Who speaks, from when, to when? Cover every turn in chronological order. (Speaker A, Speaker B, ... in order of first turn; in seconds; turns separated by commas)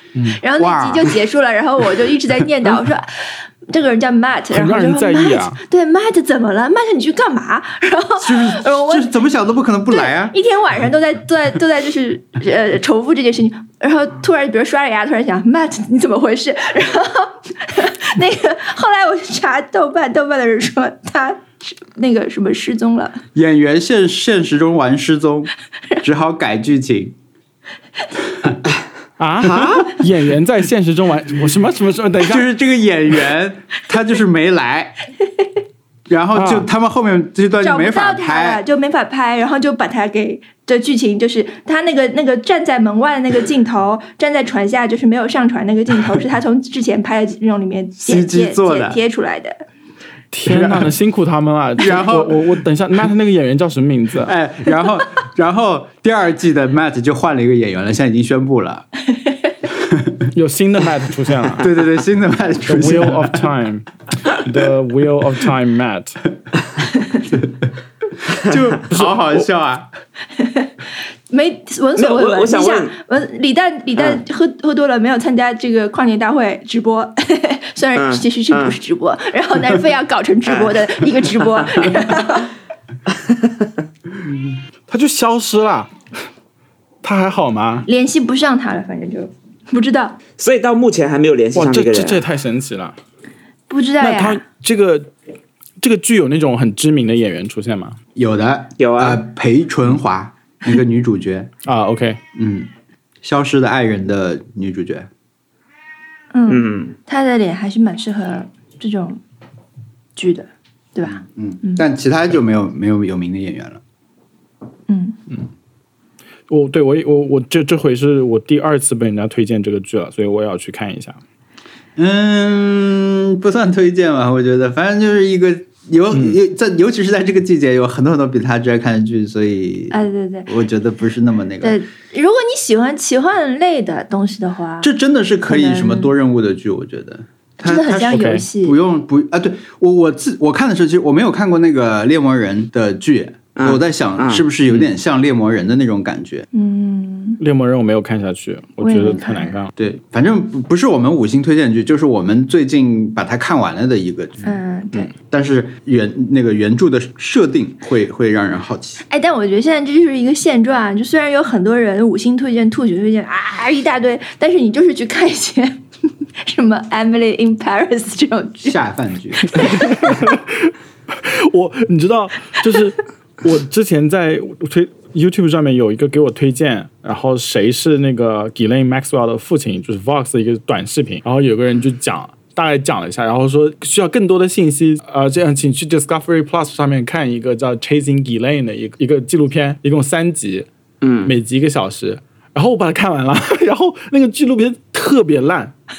Speaker A: 0.3-9.2, Speaker B: 0.5-1.1, Speaker C: 4.5-5.6, Speaker B: 8.2-10.3, Speaker A: 9.9-23.2, Speaker B: 23.4-25.5, Speaker B: 26.0-27.1, Speaker C: 29.2-32.5, Speaker D: 29.5-29.9, Speaker B: 32.2-35.0, Speaker B: 36.1-38.6, Speaker C: 36.4-36.7, Speaker A: 37.6-49.6, Speaker B: 48.0-49.0, Speaker C: 50.3-54.3, Speaker B: 50.5-50.9, Speaker B: 51.8-52.6, Speaker B: 54.2-58.9, Speaker B: 59.7-60.2, Speaker C: 60.3-61.7, Speaker B: 61.6-63.5, Speaker C: 62.7-66.2, Speaker B: 67.3-67.7, Speaker B: 68.3-69.9, Speaker C: 68.9-69.5, Speaker A: 70.4-70.7, Speaker A: 71.3-82.5, Speaker D: 72.0-72.9, Speaker D: 78.0-78.8, Speaker D: 80.5-81.9, Speaker D: 83.1-83.7, Speaker C: 84.9-85.9, Speaker C: 87.0-87.9, Speaker A: 87.9-90.2, Speaker D: 90.4-92.2, Speaker C: 91.5-93.0, Speaker A: 93.7-94.4, Speaker C: 94.0-95.1, Speaker C: 95.8-98.0, Speaker B: 98.2-101.5, Speaker D: 98.8-99.2, Speaker C: 101.6-102.2, Speaker B: 102.3-102.7, Speaker B: 103.2-105.1, Speaker A: 106.3-109.2, Speaker D: 106.5-107.0, Speaker A: 110.2-111.8, Speaker B: 111.0-113.8, Speaker A: 114.9-115.2, Speaker C: 116.5-121.2, Speaker B: 122.0-131.8, Speaker A: 129.9-130.5, Speaker A: 131.6-134.9, Speaker B: 134.8-146.5, Speaker A: 135.5-136.2, Speaker A: 137.6-138.8, Speaker C: 138.1-138.4, Speaker D: 143.6-144.5, Speaker A: 146.5-147.4, Speaker C: 147.4-149.7, Speaker A: 148.8-149.6, Speaker B: 149.8-154.6, Speaker A: 154.4-155.1, Speaker B: 155.1-159.0, Speaker A: 159.1-165.8, Speaker A: 166.4-168.8, Speaker B: 168.6-169.7, Speaker A: 169.5-170.3, Speaker C: 169.6-190.7, Speaker D: 191.0-191.3, Speaker C: 191.2-195.7